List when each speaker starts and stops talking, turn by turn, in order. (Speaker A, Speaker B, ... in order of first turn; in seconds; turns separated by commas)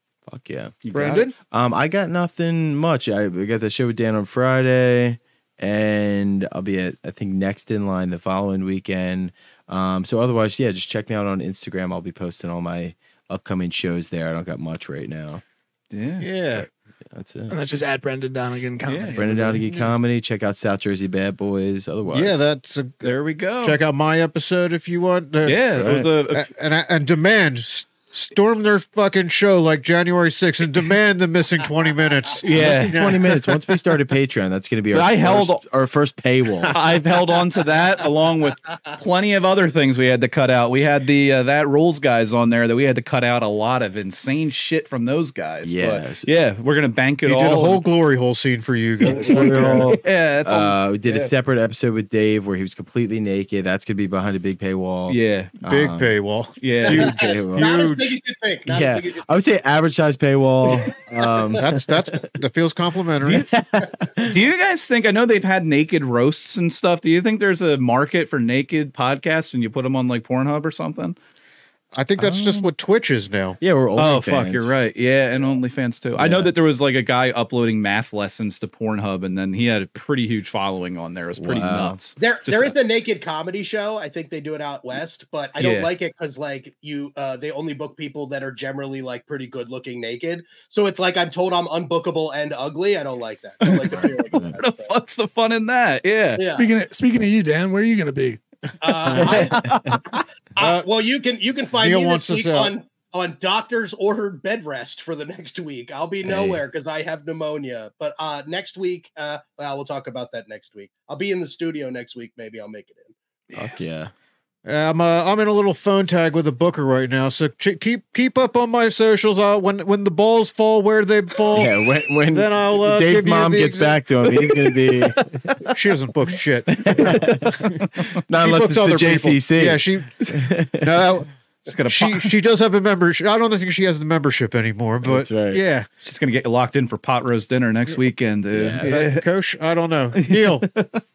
Speaker A: 0.3-0.8, Speaker B: 0.8-1.3, Speaker C: 0.9-1.3, Speaker A: 1.4-15.4, Speaker B: 15.9-16.3, Speaker C: 16.2-16.6, Speaker A: 16.5-17.5, Speaker D: 17.5-19.6, Speaker B: 18.9-19.2, Speaker A: 19.1-22.4, Speaker C: 19.6-19.9, Speaker C: 22.1-33.6, Speaker B: 23.0-23.8, Speaker B: 25.4-26.5, Speaker A: 25.7-26.1, Speaker B: 32.4-33.0, Speaker A: 32.4-36.8, Speaker B: 34.9-35.6, Speaker B: 36.7-47.8, Speaker A: 45.6-46.3, Speaker C: 47.2-49.9, Speaker A: 49.0-56.2, Speaker B: 49.1-51.3, Speaker B: 55.1-55.5, Speaker C: 55.7-58.2, Speaker B: 56.6-57.1, Speaker A: 56.8-57.7, Speaker E: 56.9-59.2, Speaker A: 58.6-62.3, Speaker C: 61.5-63.5, Speaker A: 63.3-64.4, Speaker B: 64.2-71.2, Speaker C: 71.9-73.6, Speaker A: 72.2-72.6, Speaker B: 72.2-72.6, Speaker A: 73.6-74.7, Speaker B: 74.0-82.7, Speaker A: 76.2-76.5, Speaker A: 81.4-82.0, Speaker E: 82.2-94.9, Speaker B: 85.6-85.9, Speaker B: 93.6-96.4, Speaker A: 93.9-94.5, Speaker E: 96.4-96.7, Speaker D: 96.5-98.4, Speaker E: 98.8-99.8, Speaker A: 99.1-100.0, Speaker E: 100.5-113.1, Speaker C: 100.6-100.8, Speaker C: 101.7-102.7, Speaker A: 106.2-106.6, Speaker A: 113.5-114.1, Speaker C: 114.6-121.7, Speaker A: 121.5-125.7, Speaker C: 122.3-124.7, Speaker C: 125.6-131.3, Speaker A: 126.7-131.1, Speaker B: 131.7-132.3, Speaker C: 131.9-135.9, Speaker A: 135.0-135.6, Speaker B: 136.0-139.2, Speaker A: 138.5-138.9, Speaker C: 138.8-140.8, Speaker B: 140.2-141.0